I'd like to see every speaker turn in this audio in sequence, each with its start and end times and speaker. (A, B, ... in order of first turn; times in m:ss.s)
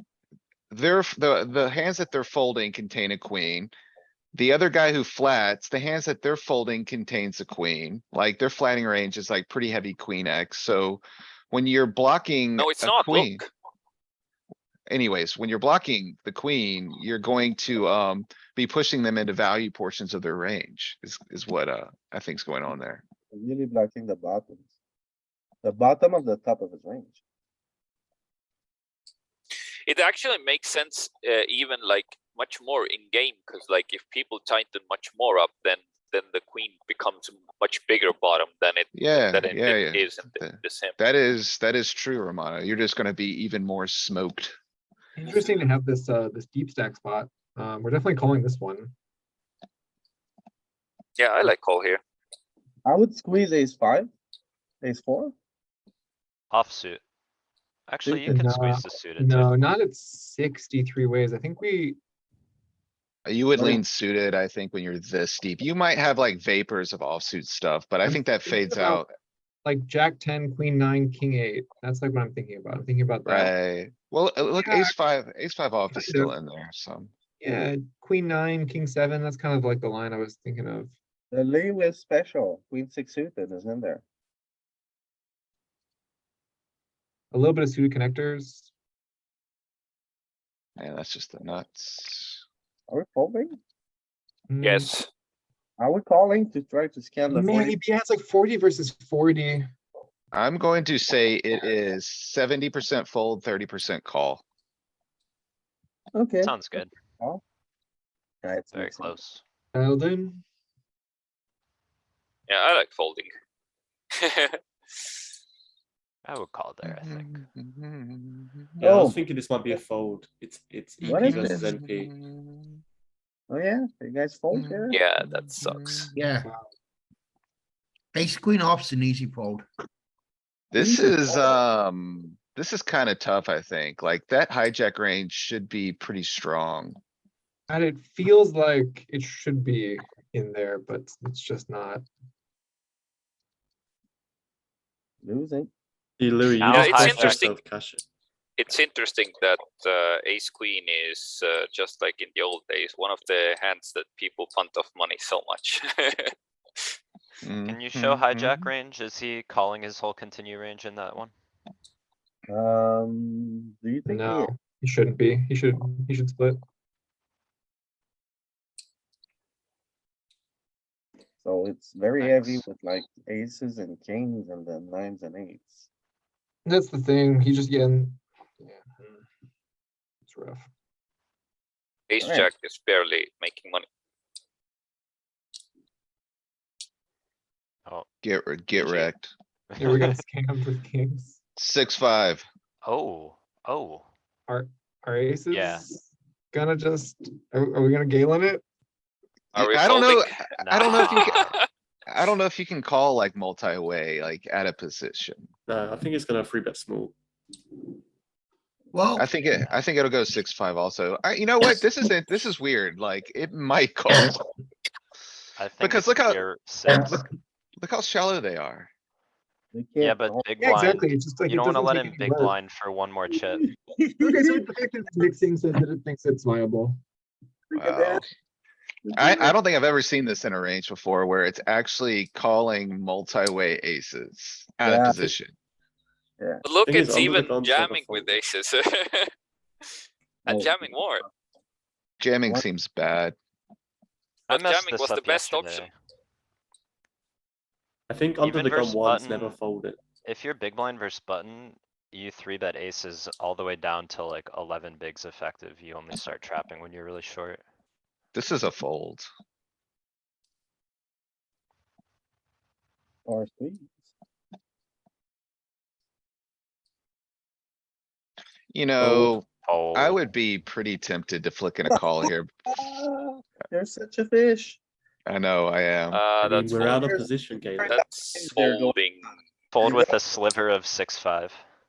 0:00.7-0:03.7 A
0:04.3-0:13.4 A
0:12.6-0:13.5 B
0:14.9-0:23.0 A
0:23.3-0:24.6 C
0:25.6-0:27.2 C
0:29.9-0:41.0 B
0:38.9-0:44.6 A
0:45.2-0:48.9 D
0:51.2-0:52.0 B
0:52.8-0:54.1 C
0:54.8-0:55.3 C
0:56.5-0:57.0 E
0:57.9-0:59.5 E
0:58.0-1:02.0 D
1:03.3-1:09.1 A
1:03.6-1:03.8 C
1:08.0-1:09.0 D
1:09.6-1:13.5 D
1:13.3-1:17.1 A
1:14.6-1:15.0 D
1:15.9-1:16.3 D
1:17.4-1:20.9 D
1:21.3-1:24.0 C
1:27.3-1:28.7 D
1:30.8-1:32.4 A
1:32.9-1:33.6 C
1:34.5-1:34.9 D
1:34.6-1:35.1 B
1:35.8-1:37.8 C
1:37.3-1:39.7 D
1:40.3-1:44.4 A
1:46.1-1:46.6 C
1:46.4-1:46.9 E
1:48.4-1:49.2 C
1:48.7-1:49.4 E
1:49.7-1:50.4 D
1:52.5-1:53.3 B
1:54.2-1:54.6 B
1:56.2-1:57.4 E
1:56.8-1:58.8 A
1:58.8-2:02.1 F
1:58.8-1:59.8 C
2:01.0-2:01.7 C
2:01.2-2:02.8 A
2:03.5-2:05.0 C
2:04.5-2:06.2 A
2:04.9-2:06.1 B
2:06.2-2:06.5 G
2:08.1-2:09.7 G
2:10.7-2:17.0 A
2:10.8-2:11.6 C
2:17.7-2:22.0 D
2:25.2-2:25.7 C
2:26.2-2:28.0 F
2:26.6-2:27.5 E
2:26.7-2:27.6 B
2:28.6-2:36.3 B
2:37.4-2:38.7 A
2:37.7-2:41.3 E
2:42.5-2:44.5 C
2:44.1-2:46.6 D
2:51.4-2:55.9 C
2:52.2-2:52.6 E
2:56.6-2:59.2 D
3:00.3-3:00.7 D
3:02.1-3:03.8 B
3:02.2-3:02.5 C
3:08.2-3:09.3 A
3:08.8-3:09.1 E
3:09.7-3:10.2 E
3:09.8-3:11.4 D
3:11.6-3:12.5 A
3:12.8-3:14.1 E
3:14.5-3:18.6 D
3:15.5-3:15.8 E
3:19.6-3:21.4 A
3:19.6-3:21.6 B
3:20.6-3:21.6 E
3:22.1-3:25.5 A
3:25.7-3:27.2 F
3:28.9-3:29.6 G
3:29.1-3:34.4 A
3:35.6-3:37.3 E
3:35.8-3:37.2 A
3:37.8-3:38.9 A
3:39.7-3:41.0 C
3:40.0-3:43.7 E
3:40.6-3:42.6 D
3:44.0-3:44.6 C
3:44.2-3:47.0 D
3:47.7-3:48.2 C
3:47.8-3:48.3 A
3:49.0-3:49.6 C
3:49.1-3:55.5 A
3:54.8-3:55.3 C
3:56.4-3:56.7 C
3:56.6-3:59.3 B
3:56.8-3:58.4 F
4:00.4-4:01.2 B
4:00.5-4:01.1 C
4:02.2-4:03.4 A
4:04.5-4:05.9 B
4:04.5-4:05.9 E
4:08.1-4:10.0 F
4:08.4-4:09.6 E
4:10.2-4:17.6 E
4:18.3-4:19.3 A
4:23.3-4:23.9 C
4:28.7-4:32.9 A
4:29.0-4:29.4 C
4:29.6-4:30.2 E
4:32.8-4:34.8 C
4:35.3-4:36.2 A
4:36.1-4:37.1 B
4:36.4-4:38.0 F
4:36.8-4:39.0 C
4:37.9-4:39.4 B
4:39.7-4:41.6 E
4:39.8-4:40.2 C